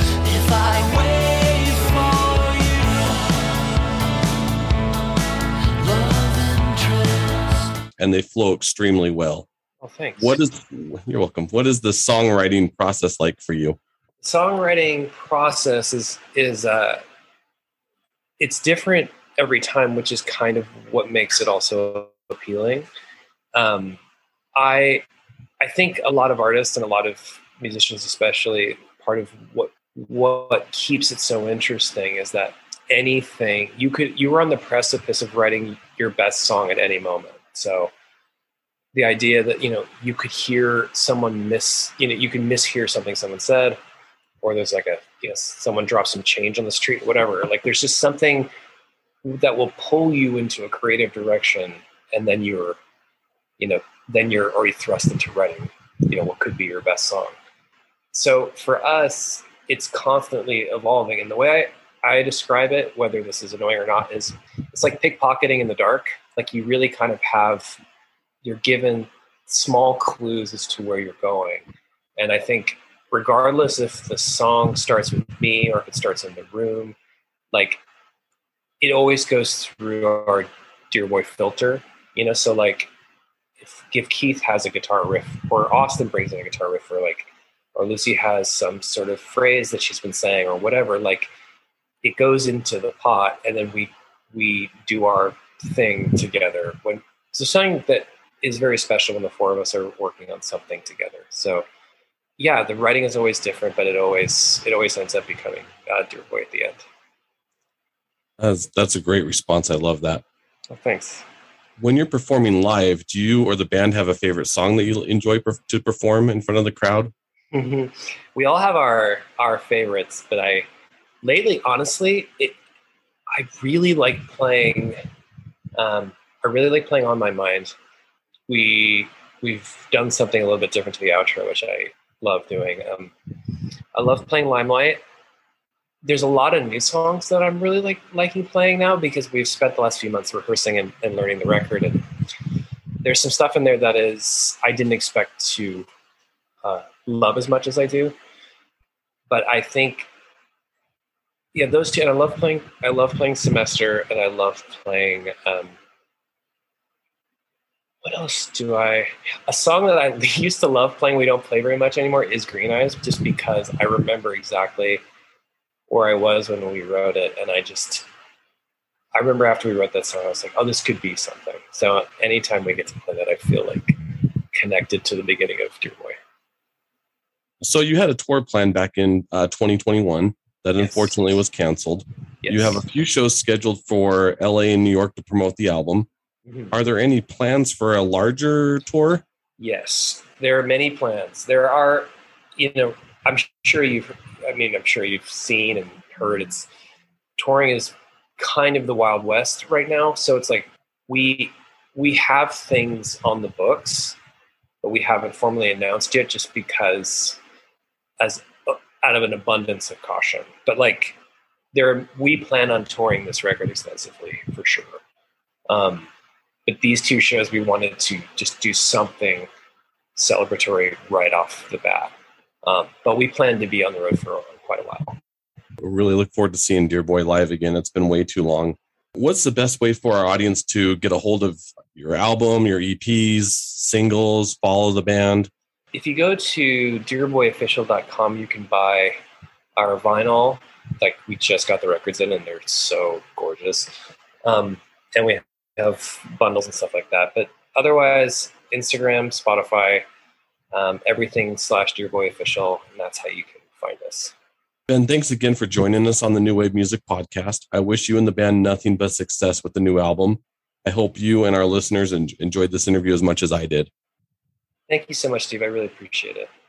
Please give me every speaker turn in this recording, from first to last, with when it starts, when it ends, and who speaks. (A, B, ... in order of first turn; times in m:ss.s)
0:00.2-0:03.6 A
0:05.8-0:07.7 A
0:08.0-0:09.4 B
0:09.8-0:10.4 C
0:10.2-0:13.8 B
0:14.2-0:17.0 C
0:18.4-0:22.9 C
0:23.5-0:24.0 C
0:24.6-0:25.0 C
0:25.6-0:37.9 C
0:38.9-0:43.8 C
0:44.4-0:48.5 C
0:49.2-0:52.8 C
0:53.6-0:57.3 C
0:58.1-1:07.8 C
1:08.4-1:11.6 C
1:12.2-1:17.0 C
1:17.5-1:17.8 C
1:18.8-1:22.9 C
1:23.6-1:31.3 C
1:32.0-1:41.6 C
1:42.4-1:46.8 C
1:48.4-1:50.2 B
1:50.7-1:51.2 C
1:51.8-1:57.1 B
1:57.5-2:00.6 C
2:01.2-2:02.6 C
2:03.3-2:05.0 C
2:05.8-2:07.7 C
2:08.5-2:13.1 C
2:13.9-2:15.0 C
2:16.0-2:22.1 C
2:23.0-2:25.9 C
2:26.6-2:28.1 C
2:29.3-2:30.1 C
2:31.5-2:35.8 C
2:38.0-2:45.0 C
2:45.9-2:48.1 C
2:49.1-2:56.2 C
2:57.6-3:06.1 B
3:00.8-3:01.1 C
3:02.4-3:02.8 C
3:06.5-3:06.7 C
3:06.7-3:09.2 B
3:09.6-3:16.7 C
3:17.4-3:24.2 C
3:24.8-3:27.4 C
3:28.2-3:31.2 C
3:31.7-3:35.0 C
3:35.7-3:36.1 C
3:36.6-3:39.5 C
3:40.2-3:42.1 C
3:42.6-3:45.2 C
3:45.8-3:55.5 B
3:55.9-3:59.2 C
3:59.8-4:10.0 C
4:10.7-4:14.3 C
4:14.9-4:23.9 B
4:24.9-4:26.5 C